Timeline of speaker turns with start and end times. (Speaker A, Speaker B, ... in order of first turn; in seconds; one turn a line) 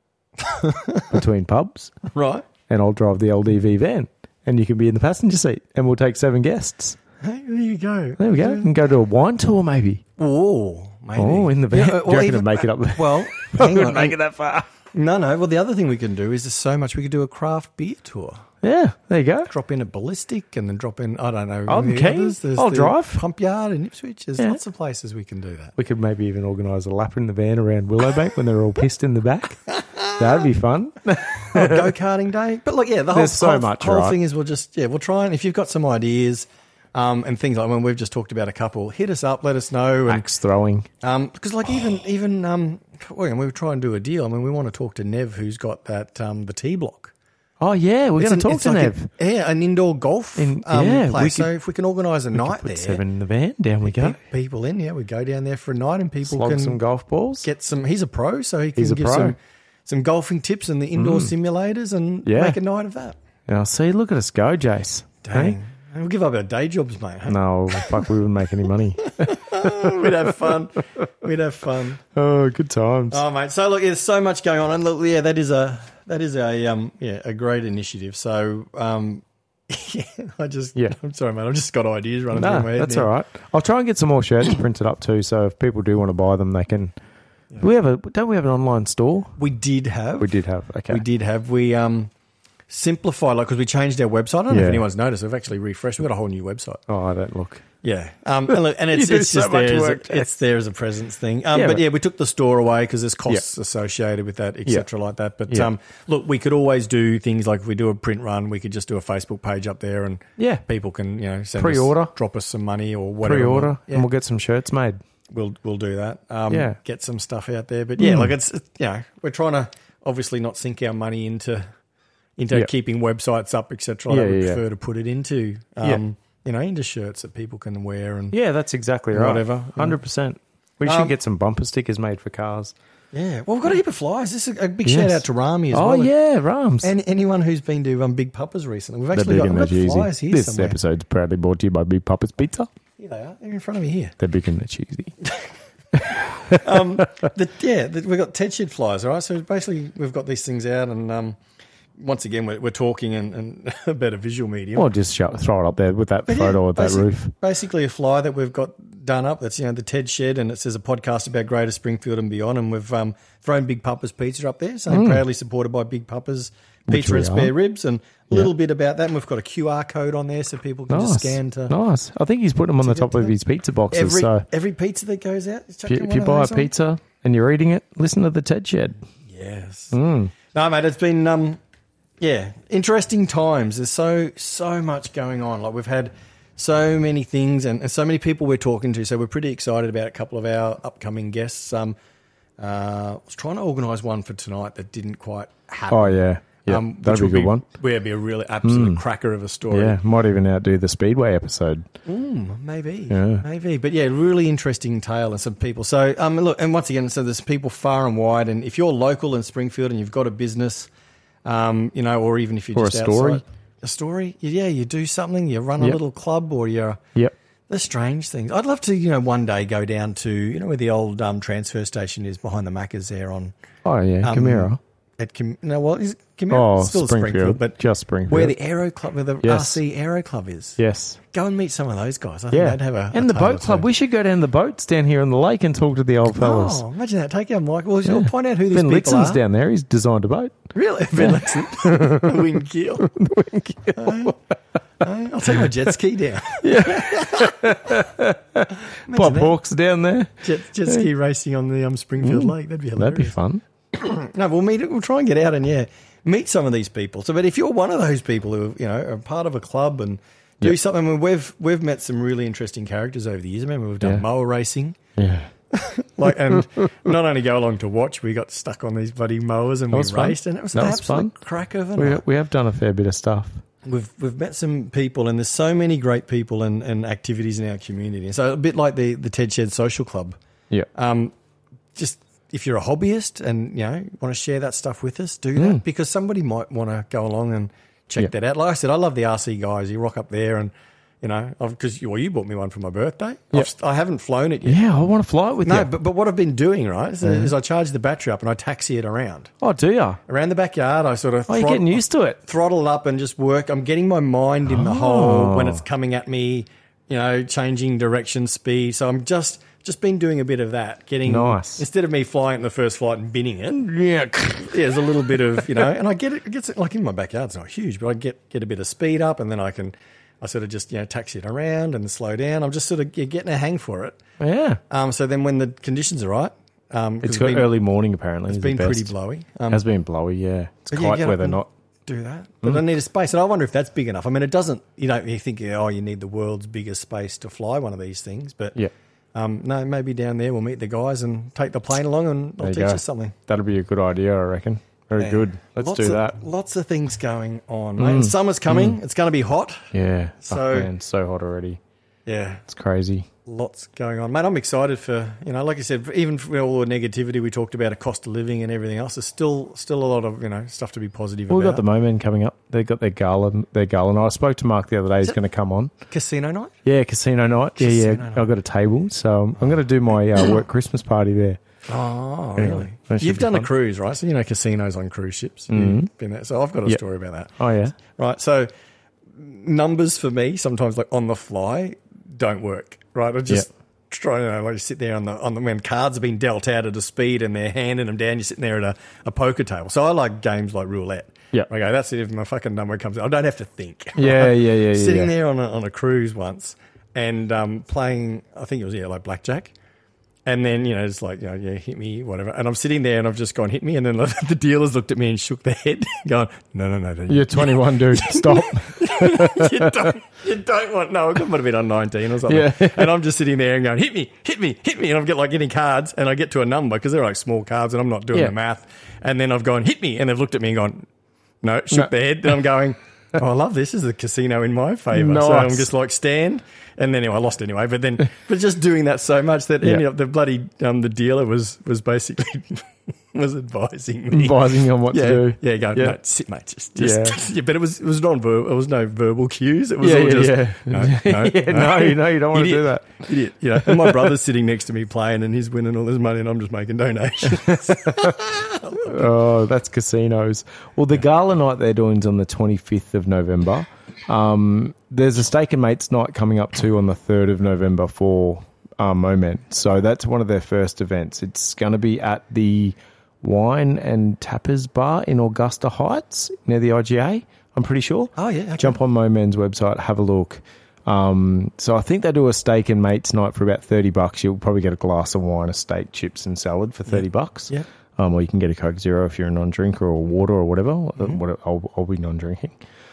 Speaker A: 0.4-1.1
Speaker B: 1.1-1.9
Speaker A: 2.1-2.5
Speaker B: 2.7-7.0
Speaker A: 7.2-8.7
Speaker B: 8.2-10.0
Speaker A: 10.2-14.2
Speaker B: 11.2-14.7
Speaker A: 14.9-18.5
Speaker B: 18.6-19.5
Speaker A: 19.5-25.7
Speaker B: 21.7-23.2
Speaker B: 25.8-31.9
Speaker A: 31.5-40.3
Speaker B: 33.1-34.2
Speaker B: 40.1-40.9
Speaker A: 41.0-47.1
Speaker B: 47.6-49.1
Speaker A: 48.2-53.0
Speaker B: 50.4-51.5
Speaker B: 52.3-54.2
Speaker A: 53.8-56.8
Speaker B: 56.2-57.5
Speaker A: 57.4-63.2
Speaker B: 58.8-59.3
Speaker B: 61.0-61.3
Speaker B: 62.2-62.6
Speaker B: 63.5-65.6
Speaker A: 65.2-68.1
Speaker B: 67.3-70.6
Speaker A: 69.0-72.0
Speaker B: 72.1-73.2
Speaker A: 73.1-83.1
Speaker B: 82.3-86.9
Speaker B: 87.6-89.3
Speaker A: 89.4-90.3
Speaker B: 90.2-91.0
Speaker A: 90.9-92.1
Speaker A: 92.7-96.8
Speaker B: 94.5-94.8
Speaker B: 96.9-97.6
Speaker A: 97.8-114.1
Speaker B: 98.5-100.3
Speaker B: 101.5-101.8
Speaker B: 110.4-110.6
Speaker B: 111.6-112.1
Speaker B: 113.2-115.0
Speaker A: 115.3-121.7
Speaker B: 116.5-116.8
Speaker B: 118.0-118.3
Speaker A: 122.4-128.4
Speaker B: 124.1-124.6
Speaker B: 128.3-132.7
Speaker A: 129.1-130.0
Speaker A: 130.8-131.1
Speaker A: 133.1-136.1
Speaker B: 134.8-136.9
Speaker A: 136.8-140.8
Speaker B: 139.1-142.7
Speaker A: 143.0-144.2
Speaker B: 144.2-145.1
Speaker A: 145.2-145.5
Speaker B: 145.9-147.1
Speaker A: 146.5-151.4
Speaker A: 152.0-154.9
Speaker B: 154.7-157.3
Speaker A: 156.3-171.7
Speaker B: 164.9-165.2
Speaker B: 166.9-167.5
Speaker B: 170.9-174.4
Speaker A: 172.8-173.3
Speaker A: 173.9-176.7
Speaker B: 175.9-179.0
Speaker A: 179.3-181.6
Speaker B: 179.9-180.3
Speaker A: 182.2-191.9
Speaker A: 192.6-200.0
Speaker B: 195.9-197.6
Speaker B: 198.6-199.0
Speaker B: 199.7-201.8
Speaker A: 202.1-210.9
Speaker B: 203.1-203.4
Speaker A: 211.4-217.0
Speaker B: 212.7-213.4
Speaker A: 217.7-223.5
Speaker B: 223.8-224.8
Speaker A: 224.2-230.8
Speaker B: 226.5-228.6
Speaker B: 229.4-229.8
Speaker B: 230.8-231.2
Speaker A: 231.3-233.9
Speaker B: 232.5-236.8
Speaker A: 236.3-239.4
Speaker B: 238.0-240.6
Speaker A: 240.7-243.1
Speaker B: 241.1-244.3
Speaker A: 243.9-244.3
Speaker A: 245.0-248.0
Speaker B: 246.6-251.1
Speaker A: 248.7-249.6
Speaker A: 250.4-253.3
Speaker B: 252.2-253.6
Speaker A: 253.9-265.0
Speaker B: 265.1-265.5
Speaker A: 265.7-272.2
Speaker B: 266.3-266.6
Speaker B: 269.9-271.3
Speaker B: 271.9-273.6
Speaker A: 273.8-280.4
Speaker A: 280.9-281.3
Speaker A: 281.9-294.8
Speaker B: 285.6-285.8
Speaker B: 294.6-295.9
Speaker A: 295.6-299.5
Speaker B: 297.2-297.5
Speaker B: 299.6-300.2
Speaker A: 300.3-313.9
Speaker B: 301.5-302.4
Speaker B: 304.7-305.8
Speaker B: 311.2-311.8
Speaker B: 313.8-315.9
Speaker A: 314.7-324.2
Speaker B: 324.4-324.8
Speaker A: 324.9-327.7
Speaker B: 327.2-329.1
Speaker A: 328.5-329.8
Speaker B: 329.7-331.7
Speaker A: 330.9-338.8
Speaker A: 339.3-343.3
Speaker B: 342.6-346.4
Speaker A: 345.2-350.9
Speaker B: 348.0-349.0
Speaker B: 349.9-351.8
Speaker A: 352.2-352.6
Speaker B: 352.7-353.3
Speaker A: 353.4-361.8
Speaker B: 361.5-365.9
Speaker A: 366.1-366.7
Speaker B: 366.8-371.6
Speaker A: 367.8-368.5
Speaker A: 371.9-378.7
Speaker B: 372.6-373.7
Speaker B: 375.7-376.1
Speaker B: 377.6-377.9
Speaker A: 379.4-399.7
Speaker B: 394.1-395.3
Speaker A: 400.4-421.1
Speaker B: 407.3-410.1
Speaker B: 412.5-413.1
Speaker A: 421.6-449.3
Speaker B: 425.1-425.9
Speaker B: 434.3-436.2
Speaker B: 436.9-437.4
Speaker B: 440.0-443.2
Speaker B: 443.8-444.3
Speaker B: 447.5-448.4
Speaker B: 449.0-482.8
Speaker A: 468.4-469.0
Speaker A: 477.1-477.9